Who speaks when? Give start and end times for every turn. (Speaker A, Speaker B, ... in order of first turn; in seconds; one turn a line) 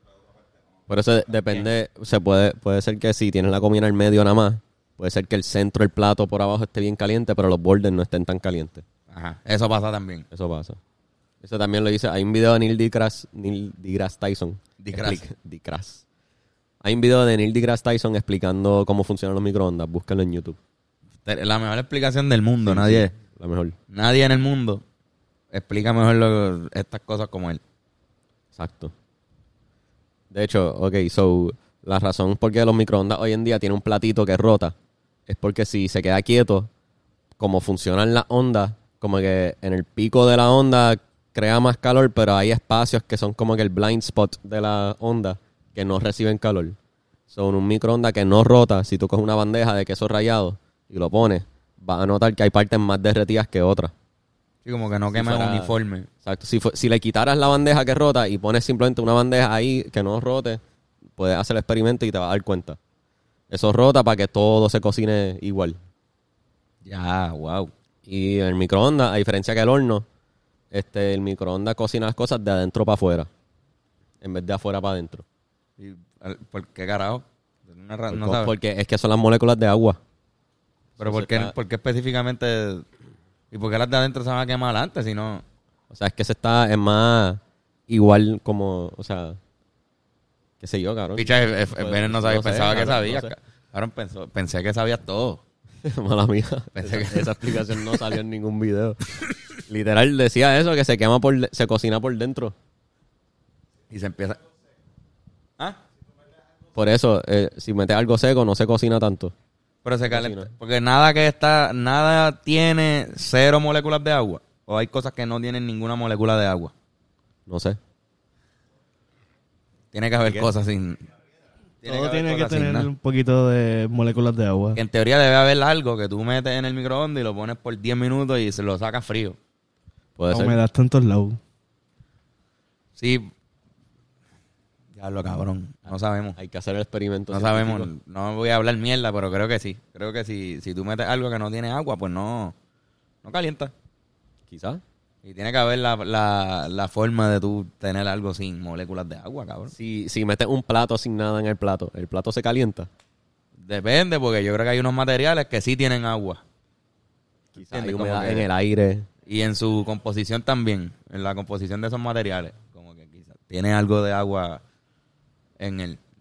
Speaker A: 0.9-8.8
Speaker B: 9.1-10.3
Speaker A: 10.3-10.8
Speaker A: 11.4-16.0
Speaker B: 14.8-15.2
Speaker A: 16.8-20.6
Speaker B: 21.2-23.1
Speaker A: 22.6-23.8
Speaker B: 23.9-24.8
Speaker B: 25.5-27.6
Speaker A: 28.6-28.9
Speaker A: 30.3-34.7
Speaker A: 35.3-36.7
Speaker A: 37.4-46.8
Speaker A: 47.3-53.9
Speaker B: 54.6-56.1
Speaker A: 55.1-60.6
Speaker A: 61.2-62.8
Speaker A: 63.5-65.8
Speaker B: 66.8-67.7
Speaker A: 68.1-70.0
Speaker A: 70.7-73.3
Speaker A: 74.2-75.2
Speaker B: 75.8-78.5
Speaker A: 78.1-80.0
Speaker A: 81.0-81.5
Speaker B: 81.0-82.8
Speaker B: 83.5-85.4
Speaker A: 85.9-89.4
Speaker A: 90.6-93.3
Speaker B: 91.2-95.4
Speaker A: 95.8-102.5
Speaker B: 96.8-98.0
Speaker B: 103.9-104.4
Speaker A: 106.8-109.3
Speaker B: 109.8-116.7
Speaker A: 110.1-110.5
Speaker A: 117.5-117.8
Speaker B: 119.9-121.0
Speaker B: 121.8-122.9
Speaker C: 121.9-124.8
Speaker B: 124.7-129.4
Speaker A: 130.2-130.6
Speaker C: 130.3-131.4
Speaker B: 133.0-133.3
Speaker B: 135.0-136.4
Speaker A: 136.4-137.9
Speaker B: 137.3-142.6
Speaker B: 143.2-143.7
Speaker A: 144.5-144.8
Speaker B: 145.2-149.7
Speaker A: 149.7-152.9
Speaker B: 153.6-156.4
Speaker A: 157.6-159.1
Speaker B: 157.7-158.5
Speaker B: 159.3-164.6
Speaker B: 165.6-166.0